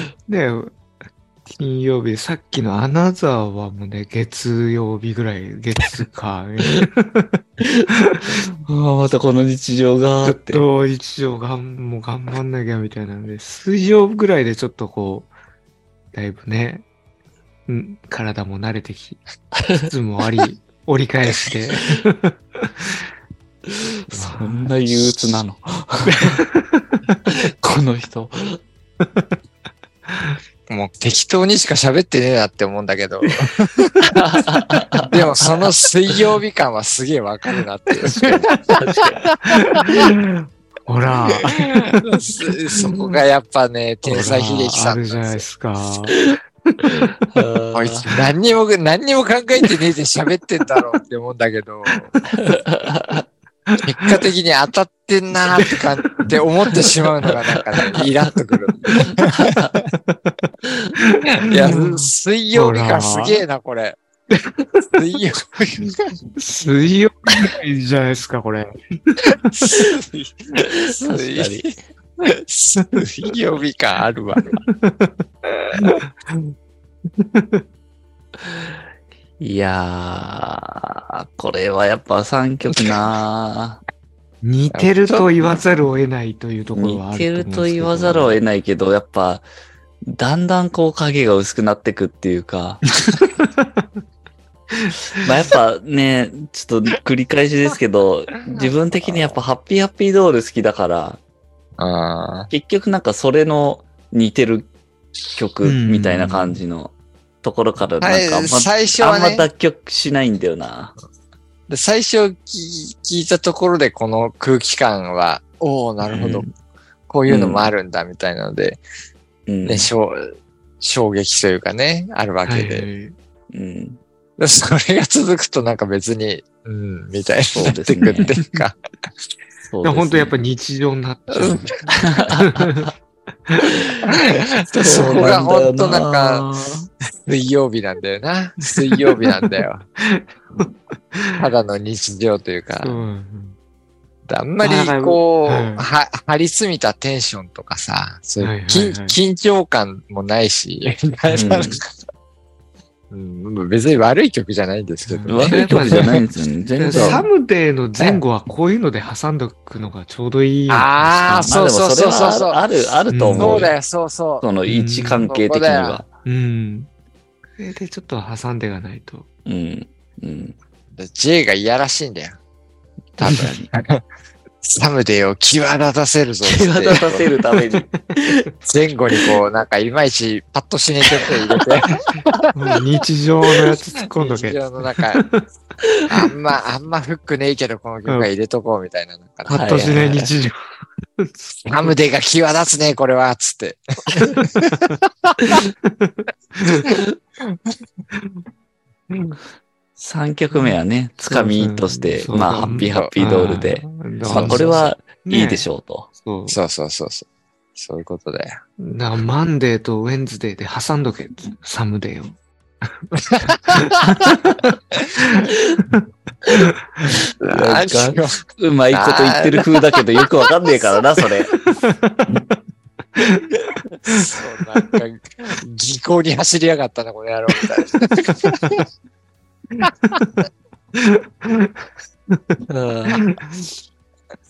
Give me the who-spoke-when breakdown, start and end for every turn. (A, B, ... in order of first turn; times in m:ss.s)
0:00.2-0:00.8 A
0:01.5-0:08.3 A
0:07.6-0:10.6 B
0:10.2-0:15.3 A
0:16.1-0:16.8 A
0:17.7-0:19.2 A
0:19.6-0:19.9 B
0:19.8-0:23.0 A
0:24.1-0:24.7 A
0:24.1-0:26.4 B
0:26.1-0:27.2 A
0:27.3-0:28.6 B
0:29.0-0:29.4 A
0:30.1-0:30.4 A
0:30.7-0:33.9 C
0:34.1-0:35.1 B
0:35.0-0:38.5 C
0:38.2-0:38.8 A
0:38.8-0:39.3 B
0:39.5-0:42.0 A
0:41.3-0:45.4 C
0:42.7-0:43.2 A
0:44.0-0:47.3 A
0:47.3-0:48.0 B
0:47.7-0:52.1 C
0:51.9-0:52.2 A
0:52.3-0:53.2 B
0:53.7-0:54.1 A
0:53.8-0:59.9 C
0:55.6-0:57.1 A
0:57.7-0:58.3 A
0:58.9-0:59.1 A
0:59.3-0:59.7 B
0:59.9-1:03.4 A
1:01.4-1:04.0 C
1:04.3-1:05.0 A
1:05.0-1:06.1 C
1:06.4-1:09.8 A
1:09.5-1:14.5 C
1:10.7-1:11.7 B
1:14.5-1:15.1 A
1:15.5-1:15.8 C
1:15.8-1:16.5 A
1:17.2-1:17.6 A
1:19.4-1:23.8 B
1:22.8-1:23.0 C
1:24.4-1:28.4 A
1:24.7-1:25.3 C
1:26.7-1:29.4 B
1:30.0-1:32.8 B
1:33.0-1:33.8 A
1:34.7-1:35.2 A
1:35.2-1:41.2 B
1:38.5-1:39.4 C
1:41.8-1:42.5 C
1:42.5-1:44.7 B
1:45.3-1:50.9 B
1:45.6-1:46.6 A
1:48.0-1:49.5 C
1:51.7-1:56.5 C
1:56.0-1:56.5 A
1:57.1-1:58.8 C
1:57.3-1:57.7 B
1:59.5-1:59.9 B
1:59.6-2:02.9 C
2:02.5-2:03.1 A
2:03.5-2:04.0 B
2:04.4-2:08.8 C
2:07.5-2:08.4 B
2:09.7-2:10.3 B
2:09.8-2:11.8 A
2:11.3-2:12.9 B
2:12.3-2:12.9 A
2:13.6-2:14.0 B
2:14.1-2:16.5 C
2:14.8-2:16.9 B
2:14.9-2:15.2 A
2:17.2-2:19.8 C
2:18.7-2:21.4 A
2:21.4-2:23.0 C
2:22.8-2:23.6 A
2:24.2-2:31.8 C
2:24.6-2:25.8 A
2:28.4-2:29.2 A
2:31.3-2:31.6 A
2:31.3-2:31.8 B
2:33.1-2:36.2 C
2:35.0-2:36.2 A
2:35.3-2:37.3 B
2:36.8-2:41.5 A
2:36.9-2:37.3 C
2:40.7-2:42.6 C
2:41.5-2:43.7 B
2:43.1-2:43.7 A
2:43.4-2:44.4 C
2:44.4-2:46.1 B
2:44.6-2:45.3 A
2:45.3-2:46.0 C
2:46.2-2:46.9 A
2:47.6-2:49.2 A
2:49.4-2:50.6 B
2:50.9-2:52.4 C
2:53.2-2:54.0 C
2:53.2-2:53.7 B
2:54.6-2:57.2 C
2:56.4-2:58.4 B
2:57.5-2:58.0 A
2:58.6-3:02.3 C
3:02.5-3:05.5 A
3:03.6-3:05.2 C
3:06.1-3:09.9 C
3:09.4-3:10.6 A
3:09.5-3:10.3 B
3:11.6-3:14.8 C
3:15.5-3:16.9 A
3:18.1-3:18.4 A
3:20.0-3:26.1 B
3:21.3-3:25.7 A
3:22.7-3:23.1 C
3:24.2-3:24.8 C
3:26.2-3:26.6 A
3:26.5-3:28.6 C
3:28.8-3:32.9 A
3:33.2-3:33.8 C
3:33.5-3:37.1 A
3:37.4-3:39.6 C
3:37.4-3:41.5 B
3:41.5-3:42.6 A
3:43.2-3:45.0 A
3:44.2-3:48.8 C
3:49.8-3:52.6 A
3:52.7-3:53.3 B
3:53.1-3:53.7 A